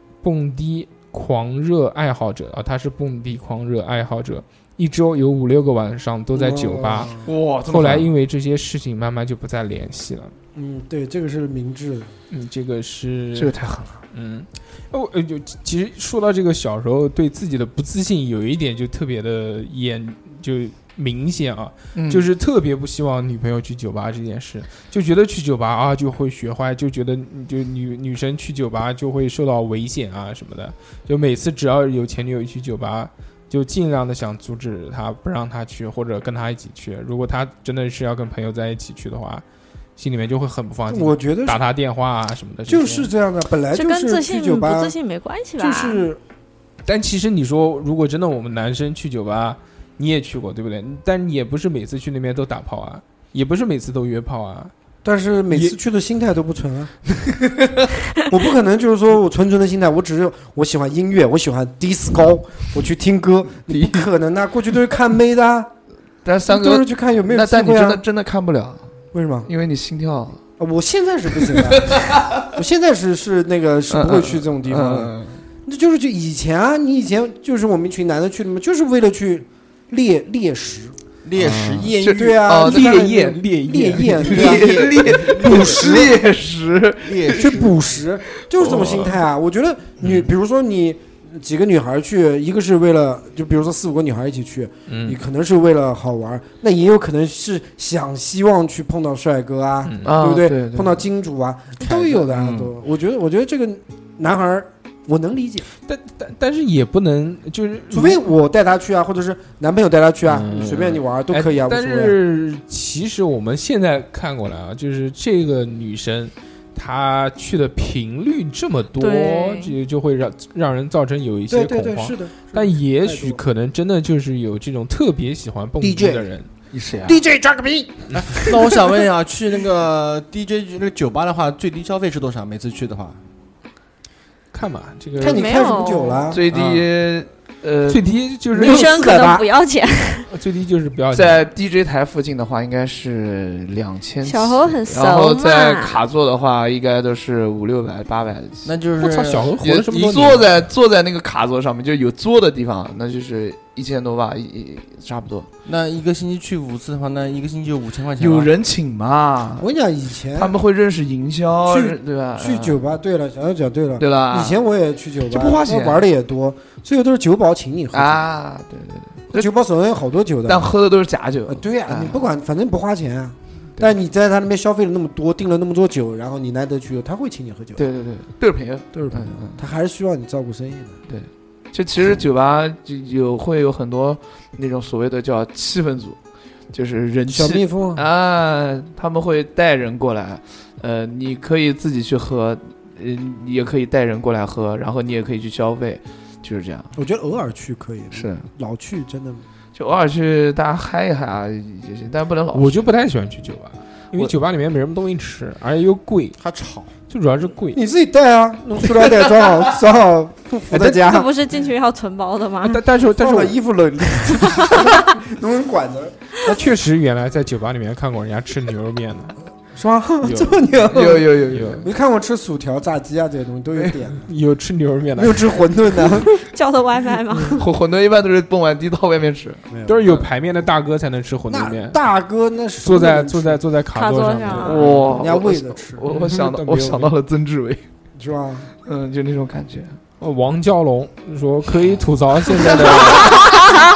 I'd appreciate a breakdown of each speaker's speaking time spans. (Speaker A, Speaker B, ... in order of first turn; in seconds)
Speaker A: 0.2-7.2, 7.7-10.3, 12.3-13.6, 14.1-39.4, 40.0-43.1, 46.9-54.7, 55.5-55.8, 81.4-81.8, 82.7-84.8, 94.9-95.2, 99.9-100.2, 105.8-108.3, 110.2-126.5, 134.5-135.6, 137.9-138.9, 140.3-141.5, 149.0-150.5, 202.5-206.4, 207.1-207.8, 210.7-211.0, 212.6-213.6, 216.6-219.4, 220.2-220.7, 221.5-221.9, 224.3-225.7, 229.9-232.0, 232.8-235.1, 236.0-237.1, 240.2-243.4
Speaker B: 6.3-7.3, 10.6-12.1, 40.9-41.6, 42.7-45.0, 45.6-46.2, 55.0-57.0, 58.3-65.7, 66.5-68.0, 69.1-69.5, 70.6-81.0, 82.2-86.1, 87.4-105.7, 107.9-112.2, 121.5-123.4, 125.8-126.3, 127.0-128.6, 135.2-136.4, 138.6-139.4, 159.6-160.6, 161.7-168.3, 169.3-170.7, 171.5-177.8, 178.9-181.0, 187.3-188.0, 197.0-199.5, 207.7-211.3, 213.2-216.7, 219.8-224.3, 225.2-226.4, 229.7-230.2, 231.5-233.6, 234.5-236.0, 238.2-238.7
Speaker C: 7.2-8.1, 13.3-14.0, 21.9-22.2, 63.7-64.1, 66.2-68.9, 69.5-70.4, 71.9-72.3, 73.9-75.4, 81.8-83.3, 84.0-87.6, 88.5-89.2, 100.0-101.0, 136.3-138.1, 141.1-148.7, 149.6-155.5, 158.2-159.7, 160.3-162.8, 164.0-164.6, 165.3-166.1, 167.9-169.5, 170.5-172.3, 177.8-179.6, 181.1-186.2, 186.7-196.9, 198.1-198.5, 199.8-202.8, 220.9-221.9, 227.4-230.2, 234.5-237.8, 238.8-240.0, 242.7-243.4
Speaker D: 43.7-46.0, 119.0-119.8, 135.2-136.3, 138.6-140.3, 144.2-146.0, 211.0-212.8, 226.4-227.7, 233.9-234.8
Speaker E: 81.2-82.5, 84.8-86.1, 87.0-88.0, 101.8-102.8, 126.7-127.2, 128.1-133.2, 136.5-136.9, 148.6-149.6, 155.7-158.5, 206.4-206.9